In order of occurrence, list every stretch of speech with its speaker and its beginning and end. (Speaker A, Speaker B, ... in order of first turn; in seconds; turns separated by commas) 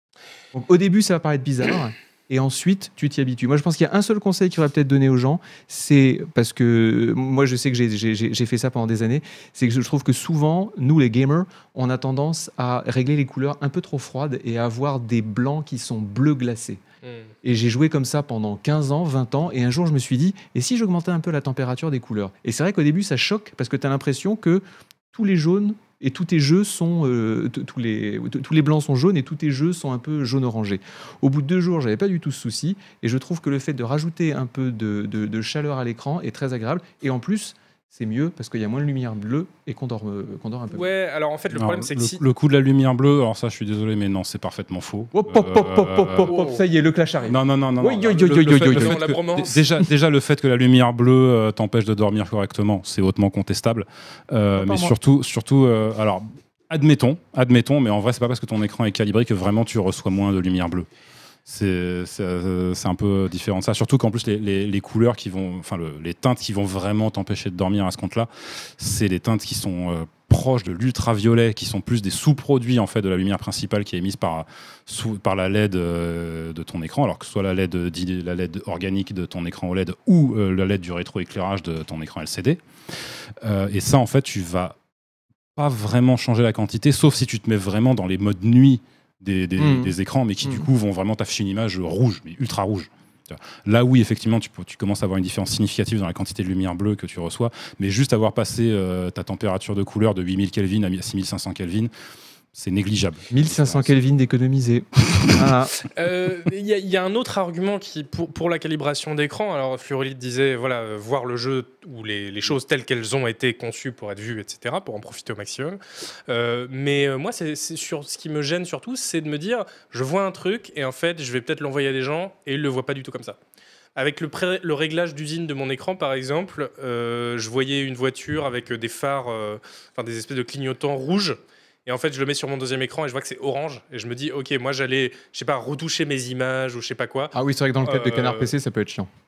Speaker A: 0.5-16.8, Speaker B: 17.0-17.3, Speaker A: 17.4-40.9, Speaker B: 40.7-42.2, Speaker C: 41.5-46.4, Speaker A: 45.1-49.0, Speaker B: 46.3-46.6, Speaker C: 47.3-60.9, Speaker B: 48.6-49.6, Speaker A: 54.5-54.9, Speaker C: 61.5-82.6, Speaker C: 83.4-84.8, Speaker C: 85.6-101.9, Speaker A: 89.6-90.7, Speaker C: 102.5-103.9, Speaker A: 103.3-105.7, Speaker B: 105.8-123.4, Speaker B: 124.0-138.5, Speaker A: 137.3-139.1